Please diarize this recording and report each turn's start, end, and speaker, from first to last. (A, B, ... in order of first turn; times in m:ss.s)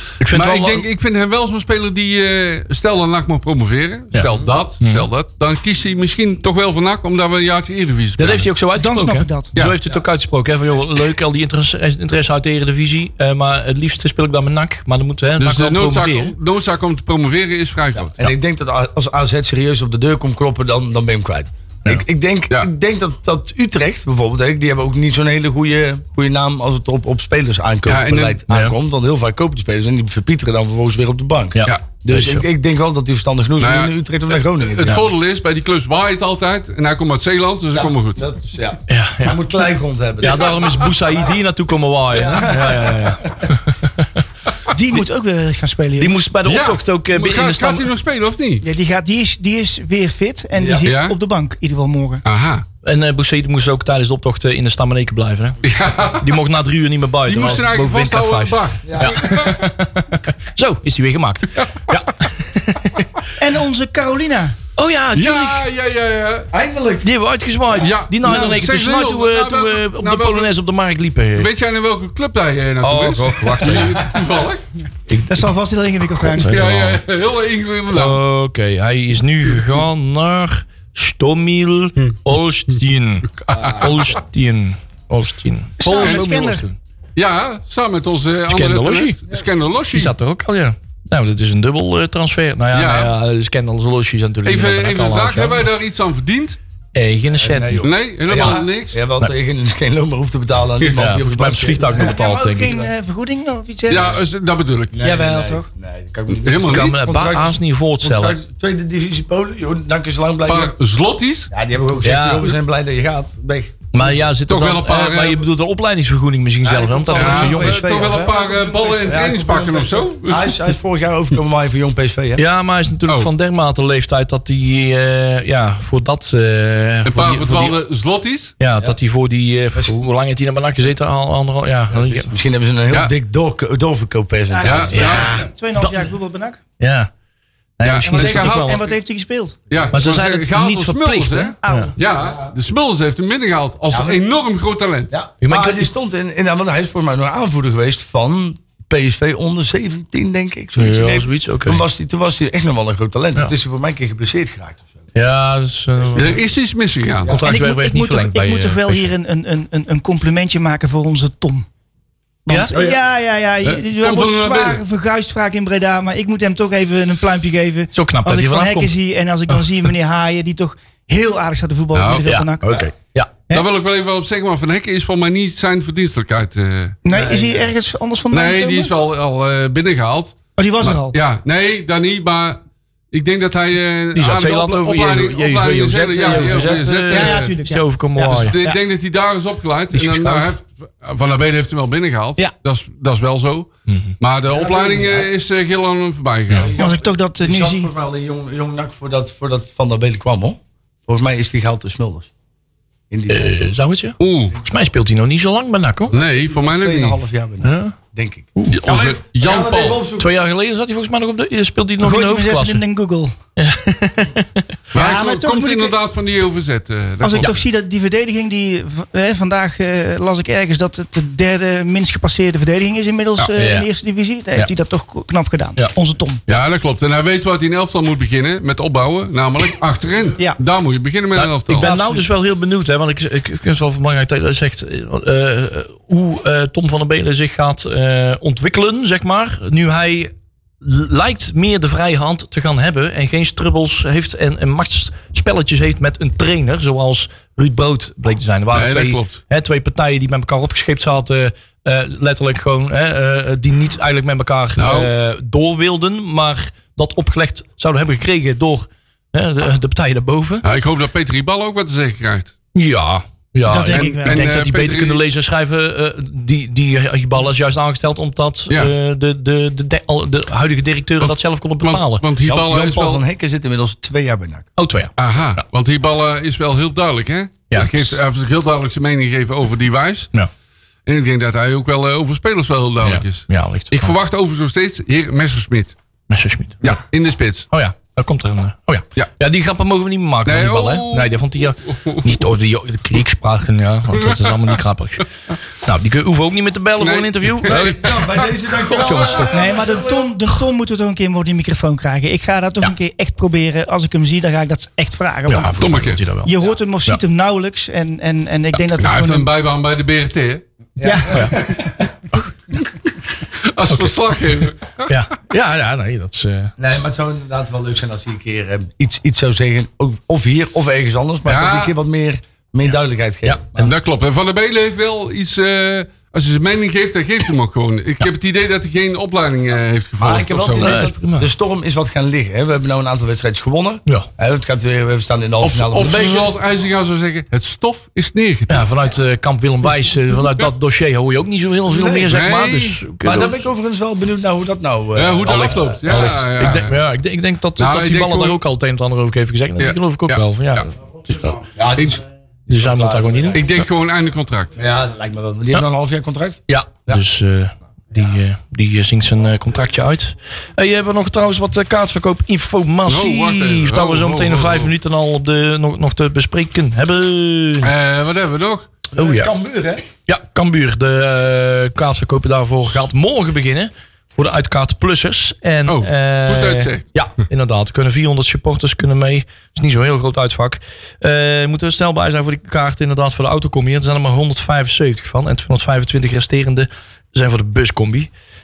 0:00.2-0:00.9 A
0:00.3-0:08.5 B
0:04.8-0:05.1 A
0:08.2-0:16.4 A
0:08.8-0:09.5 C
0:15.4-0:18.3 B
0:18.0-0:35.0 D
0:27.9-0:28.4 B
0:28.5-0:28.8 A
0:31.5-0:32.5 A
0:33.6-0:38.2 B
0:37.8-0:41.3 D
0:38.9-0:39.4 A
0:40.2-0:44.2 A
0:42.1-0:43.5 D
0:44.7-0:46.2 C
0:46.0-0:47.9 A
0:46.4-0:48.6 B
0:48.6-0:52.2 C
0:50.6-0:50.9 D
0:50.8-0:51.2 B
0:52.2-0:52.6 B
0:52.8-0:55.6 A
0:55.6-0:56.4 B
0:56.2-1:03.1 A
0:57.3-0:59.6 B
0:58.8-0:59.4 D
1:01.6-1:02.0 B
1:03.4-1:04.6 C
1:04.8-1:05.7 A
1:05.2-1:06.5 B
1:06.5-1:07.1 D
1:07.0-1:11.5 A
1:07.8-1:10.5 B
1:11.4-1:14.6 B
1:12.8-1:14.0 A
1:15.1-1:15.5 A
1:15.3-1:16.6 C
1:16.2-1:17.0 A
1:16.4-1:18.2 B
1:17.9-1:26.8 A
1:23.4-1:24.0 B
1:23.5-1:23.9 D
1:25.8-1:26.6 C
1:26.0-1:26.2 B
1:27.2-1:30.1 B
1:28.5-1:29.2 A
1:29.9-1:35.7 A
1:32.7-1:33.1 B
1:34.4-1:36.6 B
1:37.0-1:37.9 A
1:37.3-1:42.9 D
1:37.8-1:39.0 B
1:41.0-1:42.8 A
1:41.9-1:44.2 C
1:43.9-1:45.0 B
1:44.9-1:50.7 D
1:45.0-1:45.7 C
1:46.3-1:47.0 B
1:46.7-1:48.4 A
1:50.5-1:51.5 B
1:51.5-1:53.9 D
1:52.0-1:52.6 A
1:53.9-1:58.0 A
1:54.5-1:55.5 B
1:56.6-2:02.4 D
1:57.1-2:00.7 B
2:02.4-2:07.8 A
2:07.0-2:08.5 B
2:08.6-2:12.3 A
2:11.9-2:15.4 D
2:14.5-2:16.6 C
2:14.6-2:15.4 B
2:14.9-2:16.1 A
2:16.8-2:17.1 A
2:17.8-2:18.8 A
2:17.8-2:18.8 B
2:18.0-2:19.6 C
2:19.7-2:25.1 B
2:19.9-2:21.9 A
2:21.6-2:22.0 C
2:22.2-2:22.5 D
2:23.9-2:24.2 D
2:25.1-2:35.1 D
2:25.4-2:25.9 A
2:30.8-2:31.8 A
2:35.2-2:36.4 A
2:36.0-2:36.3 D
2:36.1-2:37.4 B
2:37.2-2:39.1 A
2:37.4-2:41.7 C
2:42.5-2:52.9 C
2:42.5-2:42.7 A
2:42.7-2:43.0 D
2:43.6-2:44.8 B
2:47.9-2:48.9 A
2:51.9-2:52.2 B
2:52.2-2:53.3 A
2:53.5-2:57.0 B
2:57.0-2:58.9 C
2:57.1-2:57.7 D
2:58.3-3:02.6 B
3:00.6-3:01.2 C
3:03.1-3:07.5 B
3:04.2-3:08.6 A
3:07.1-3:08.8 C
3:08.3-3:13.7 B
3:09.9-3:10.6 A
3:14.2-3:16.8 B
3:14.5-3:15.3 D
3:16.5-3:22.3 D
3:16.8-3:17.9 C
3:23.1-3:23.6 D
3:23.3-3:26.2 A
3:24.2-3:24.6 B
3:26.1-3:27.2 B
3:26.5-3:30.3 D
3:27.6-3:28.0 A
3:28.7-3:30.0 B
3:30.2-3:32.8 A
3:32.0-3:33.3 C
3:33.6-3:34.7 A
3:34.9-3:36.0 C
3:34.9-3:37.6 B
3:37.2-3:46.4 C
3:43.6-3:43.9 A
3:46.5-3:51.9 B
3:51.4-4:20.6 A
3:51.8-3:52.2 C
4:08.7-4:09.4 B
4:14.8-4:15.1 B
4:20.6-4:22.5 B
4:22.8-4:32.2 A
4:23.7-4:24.4 C
4:24.1-4:25.2 B
4:31.2-4:33.2 B
4:32.5-4:34.7 D
4:34.8-4:35.6 A
4:35.2-4:40.3 B
4:37.7-4:38.2 A
4:41.1-4:46.0 B
4:43.0-4:44.2 A
4:46.3-4:47.0 A
4:46.8-4:47.7 B
4:47.7-4:55.3 A
4:50.5-4:52.4 B
4:54.1-4:54.8 B
4:55.8-4:58.2 A
4:57.0-4:59.3 B
4:57.7-5:00.3 D
4:58.7-4:59.8 A
4:59.5-5:05.8 C
5:05.5-5:06.6 A
5:05.8-5:06.2 B
5:06.4-5:09.5 C
5:09.0-5:10.6 B
5:11.0-5:12.1 D
5:11.0-5:11.4 C
5:11.3-5:11.6 A
5:13.6-5:15.1 B
5:13.9-5:16.7 A
5:16.8-5:23.9 D
5:21.5-5:21.9 B
5:23.4-5:23.8 A
5:23.8-5:31.1 B
5:30.2-5:36.4 D
5:30.8-5:31.5 A
5:35.6-5:38.9 B
5:36.1-5:36.5 A
5:38.7-5:43.7 A
5:40.4-5:40.7 B
5:41.9-5:42.3 D
5:42.3-5:43.0 B
5:43.2-5:46.0 D
5:45.2-5:47.0 B
5:45.5-5:51.6 A
5:47.8-5:48.6 B
5:49.8-5:50.9 B
5:51.8-5:53.6 D
5:52.7-5:53.8 A
5:53.5-5:54.8 B
5:54.8-5:57.2 D
5:56.7-6:07.9 A
6:03.1-6:04.9 B
6:07.8-6:08.9 B
6:09.1-6:10.1 D
6:09.2-6:09.5 A
6:10.3-6:28.3 A
6:15.9-6:17.1 B